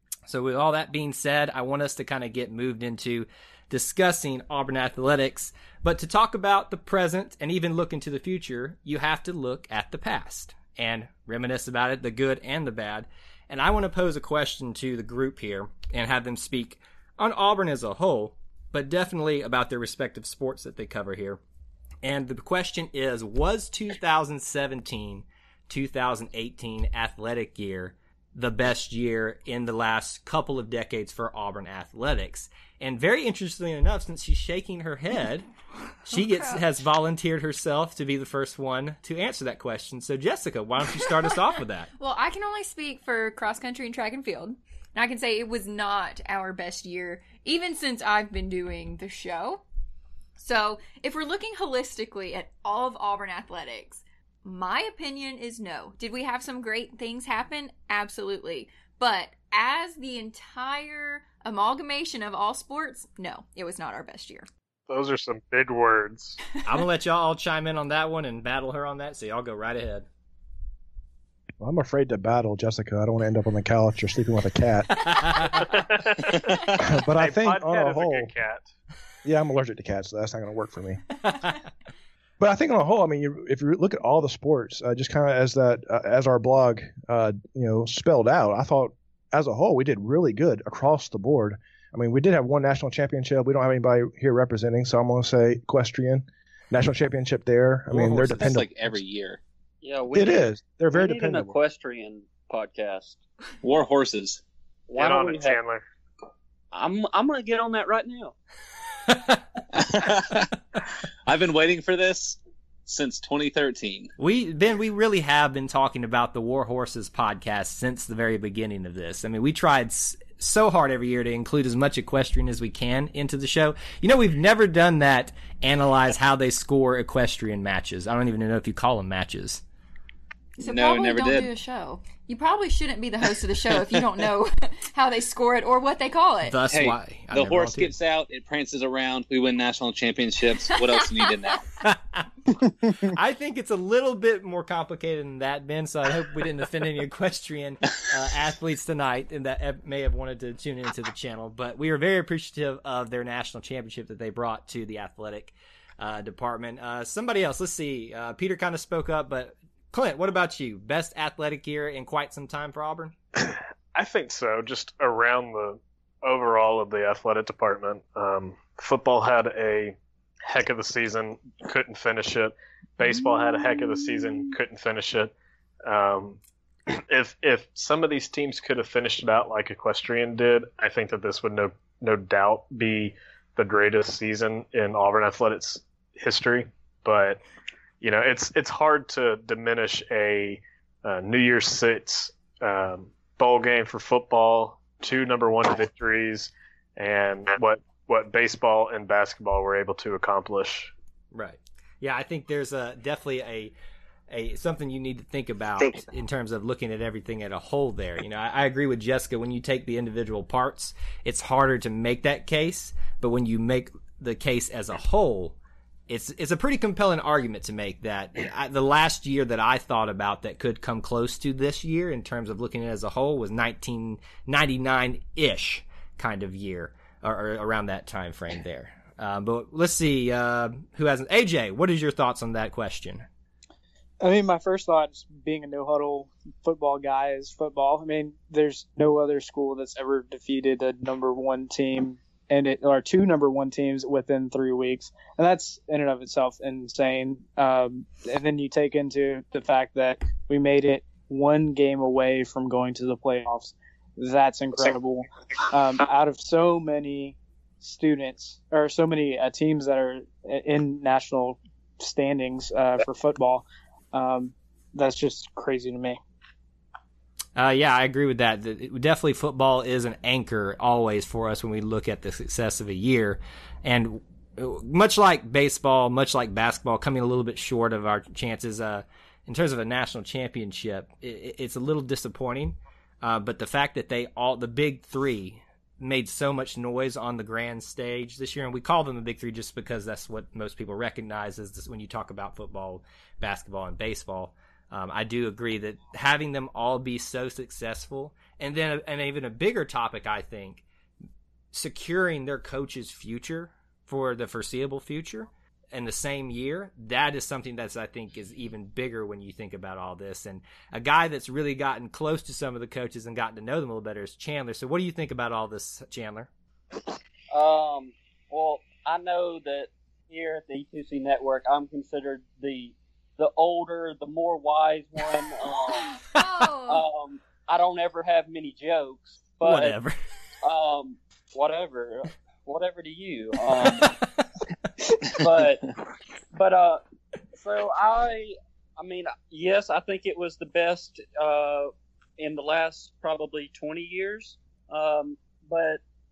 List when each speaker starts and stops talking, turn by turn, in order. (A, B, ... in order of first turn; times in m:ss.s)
0:00.3-0:21.4 A
0:22.0-0:35.5 A
0:36.1-0:41.9 A
0:36.1-0:36.6 B
0:42.0-0:49.6 B
0:50.4-1:04.5 B
1:04.9-1:06.4 C
1:06.6-1:10.0 A
1:11.6-1:15.1 D
1:15.0-1:15.7 A
1:15.6-1:18.7 C
1:16.8-1:18.3 D
1:19.2-1:21.0 D
1:21.2-1:21.6 A
1:22.4-1:39.0 D
1:37.9-1:39.4 E
1:39.8-1:43.2 F
1:40.1-1:41.6 D
1:43.6-1:44.4 E
1:44.9-1:45.6 F
1:44.9-1:45.8 C
1:46.7-1:48.3 F
1:49.1-1:49.4 A
1:49.7-1:50.5 E
1:51.2-1:54.1 E
1:54.2-2:09.6 A
2:10.6-2:16.6 B
2:10.6-2:11.5 E
2:16.4-2:17.9 A
2:16.7-2:21.7 E
2:21.8-2:22.3 A
2:23.0-2:43.1 A
2:43.4-2:55.3 C
2:55.8-3:07.4 C
3:08.0-3:20.9 C
3:21.3-3:23.7 A
3:24.3-3:35.6 A
3:36.1-3:53.3 A
3:54.2-4:26.2 G
4:27.6-5:00.8 A
5:01.7-5:16.5 A
5:17.5-5:26.3 F
5:25.9-5:27.0 B
5:26.8-5:30.0 F
5:29.6-5:30.1 A
5:30.6-5:34.2 F
5:35.3-5:35.9 F
5:36.5-5:37.0 F
5:37.5-5:46.0 F